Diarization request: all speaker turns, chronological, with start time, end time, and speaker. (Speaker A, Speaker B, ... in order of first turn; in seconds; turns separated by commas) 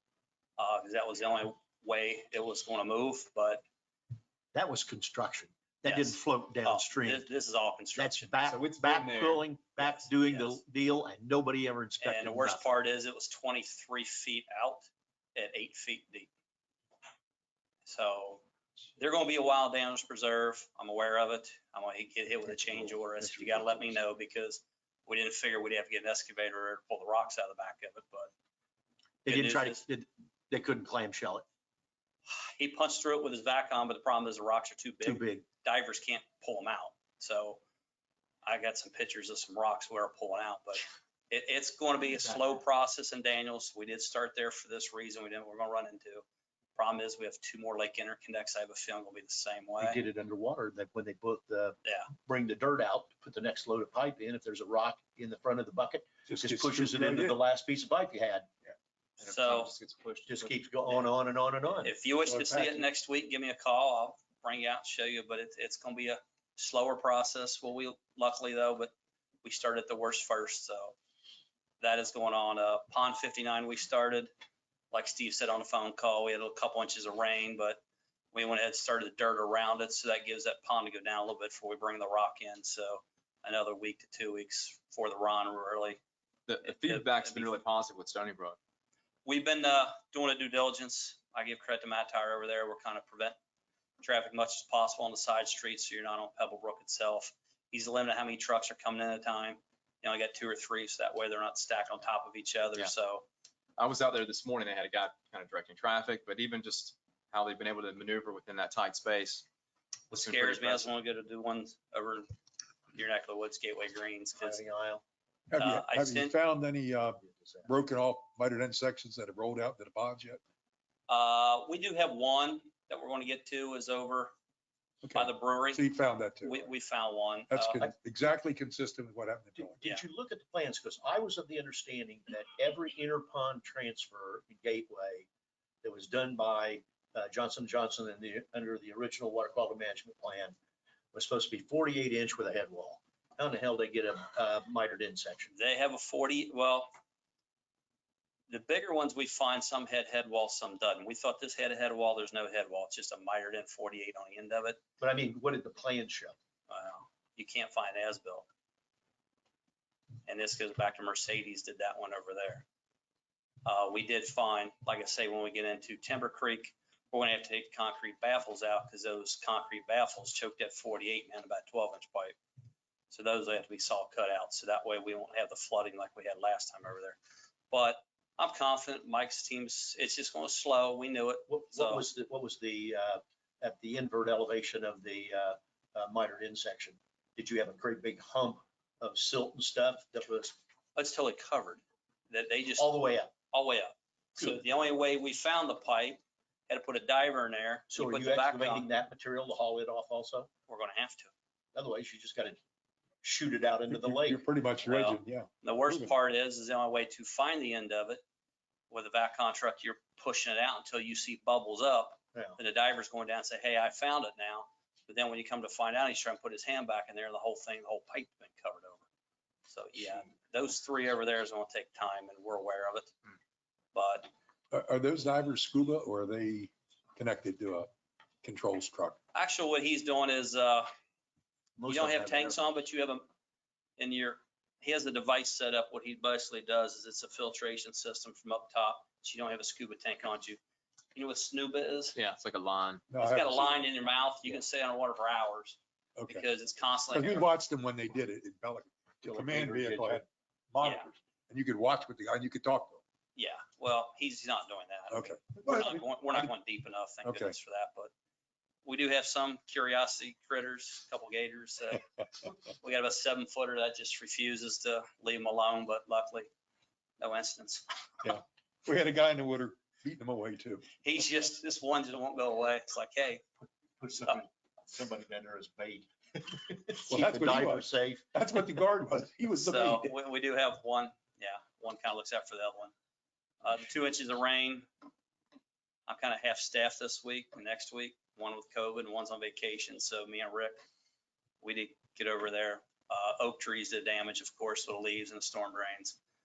Speaker A: 0.6-3.6, Speaker B: 4.5-7.3, Speaker A: 5.8-8.3, Speaker B: 7.9-12.8, Speaker C: 8.4-9.4, Speaker A: 9.8-10.6, Speaker A: 12.0-16.3, Speaker A: 17.8-18.4, Speaker A: 19.0-28.3, Speaker B: 22.4-24.0, Speaker B: 29.2-31.4, Speaker A: 29.3-29.8, Speaker A: 32.2-37.6, Speaker B: 35.0-35.5, Speaker A: 38.4-50.0, Speaker B: 49.8-58.5, Speaker A: 51.8-52.1, Speaker D: 56.3-57.4, Speaker C: 59.2-61.1, Speaker A: 59.2-59.7, Speaker B: 60.3-61.9, Speaker A: 61.8-68.9, Speaker D: 62.2-62.8, Speaker A: 69.4-71.0, Speaker A: 71.8-74.3, Speaker A: 74.9-77.8, Speaker A: 78.3-86.0, Speaker C: 86.5-88.6, Speaker A: 86.7-87.5, Speaker A: 89.2-93.4, Speaker A: 94.0-103.3, Speaker C: 103.8-109.5, Speaker C: 110.1-110.9, Speaker A: 110.1-112.3, Speaker A: 112.9-114.6, Speaker B: 114.4-115.0, Speaker D: 115.5-120.4, Speaker A: 115.6-116.3, Speaker B: 117.0-117.7, Speaker A: 121.1-124.3, Speaker D: 125.0-126.7, Speaker A: 125.1-125.9, Speaker A: 126.4-127.8, Speaker D: 127.5-129.8, Speaker B: 129.6-135.3, Speaker B: 135.8-140.6, Speaker B: 141.1-145.5, Speaker A: 145.5-146.9, Speaker A: 148.5-154.8, Speaker B: 155.0-156.3, Speaker A: 156.7-158.5, Speaker A: 160.2-162.7, Speaker A: 163.6-172.4, Speaker A: 173.1-177.2, Speaker A: 177.7-182.1, Speaker B: 181.5-190.6, Speaker A: 190.9-192.9, Speaker B: 192.8-193.3, Speaker A: 193.5-198.9, Speaker B: 197.9-200.5, Speaker A: 200.7-201.3, Speaker B: 201.7-202.6, Speaker B: 203.2-204.4, Speaker D: 203.9-206.1, Speaker A: 204.8-208.2, Speaker A: 208.9-219.0, Speaker A: 219.7-223.1, Speaker A: 223.9-224.3, Speaker D: 224.7-227.9, Speaker D: 228.4-229.2, Speaker A: 229.3-230.9, Speaker B: 231.8-232.8, Speaker A: 231.9-233.2, Speaker A: 234.0-240.6, Speaker A: 241.1-242.2, Speaker C: 242.1-243.1, Speaker D: 243.1-243.8, Speaker A: 243.2-247.5, Speaker D: 246.2-246.4, Speaker D: 247.1-253.0, Speaker B: 249.2-250.2, Speaker A: 250.8-251.1, Speaker A: 253.3-258.1, Speaker D: 255.1-256.5, Speaker D: 257.2-257.6, Speaker A: 258.8-262.0, Speaker A: 262.7-266.5, Speaker A: 267.2-267.9, Speaker D: 268.2-270.9, Speaker A: 271.0-273.4, Speaker B: 274.0-278.2, Speaker D: 277.1-280.1, Speaker A: 279.6-282.9, Speaker A: 283.6-284.9, Speaker A: 286.1-290.8, Speaker A: 291.6-296.2